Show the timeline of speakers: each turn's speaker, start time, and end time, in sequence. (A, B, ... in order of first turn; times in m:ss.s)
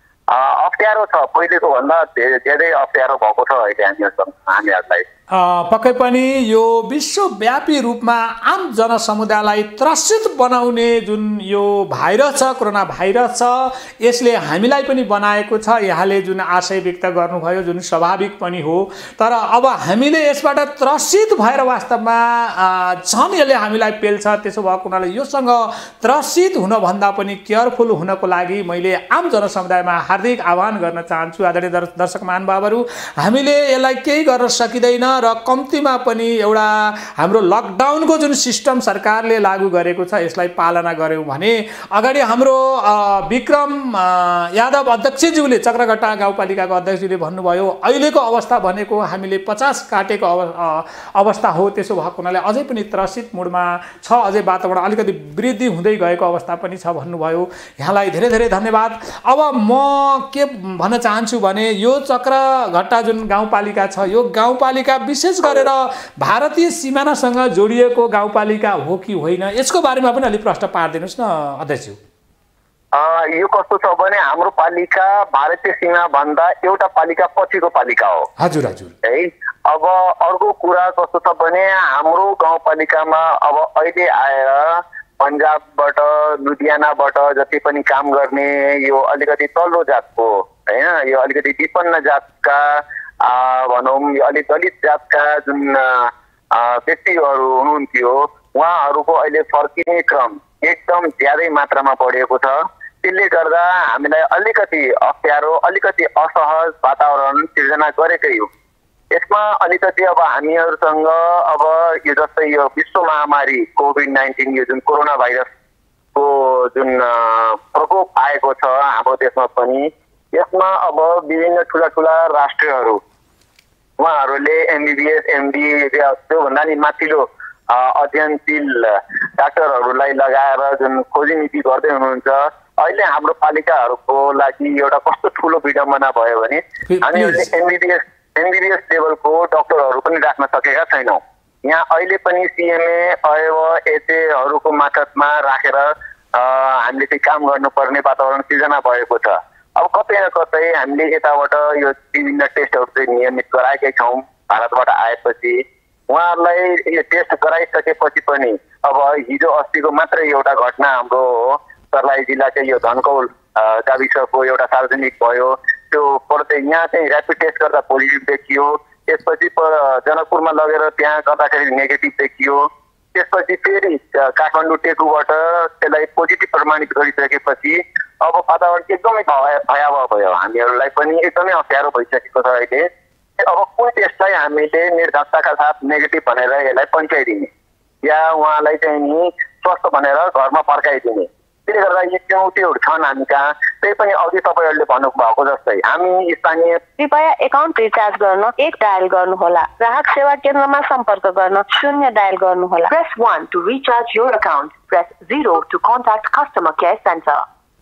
0:00.3-0:05.1 A
0:05.3-1:12.0 B
1:12.9-1:18.3 A
1:18.4-1:18.9 B
1:19.0-1:48.5 A
1:49.1-1:55.5 A
1:56.1-2:03.0 A
2:04.0-3:07.5 A
2:16.9-2:17.5 B
3:08.0-3:16.8 A
3:17.0-3:27.4 C